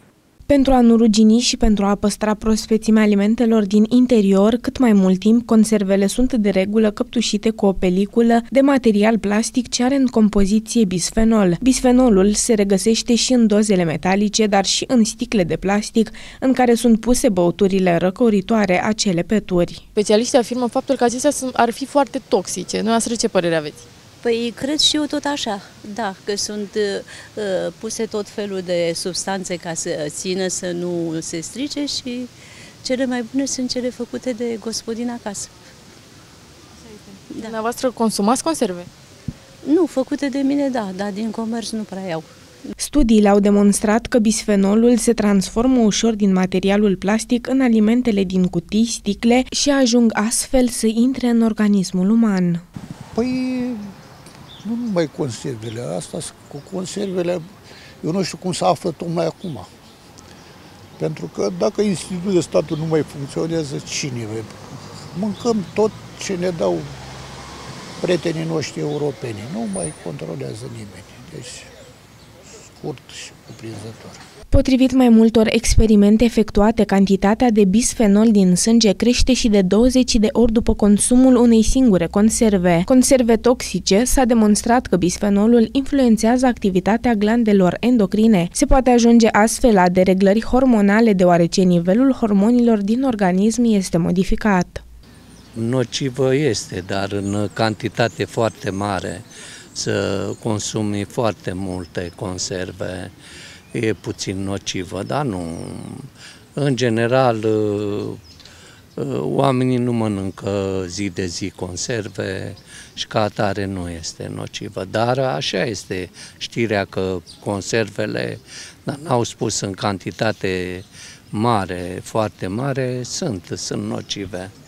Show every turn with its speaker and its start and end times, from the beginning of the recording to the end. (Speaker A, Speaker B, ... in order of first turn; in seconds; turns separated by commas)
Speaker A: 0.5-19.8, Speaker B: 20.0-23.7, Speaker C: 24.2-32.3, Speaker C: 32.8-35.5, Speaker C: 37.3-38.7, Speaker C: 39.6-42.3, Speaker A: 42.8-52.6, Speaker D: 53.1-53.9, Speaker D: 54.6-57.4, Speaker D: 58.0-59.7, Speaker D: 61.0-66.9, Speaker D: 68.0-71.7, Speaker D: 72.7-74.2, Speaker A: 74.5-94.8, Speaker E: 95.5-103.1, Speaker E: 103.7-108.2, Speaker E: 109.0-124.5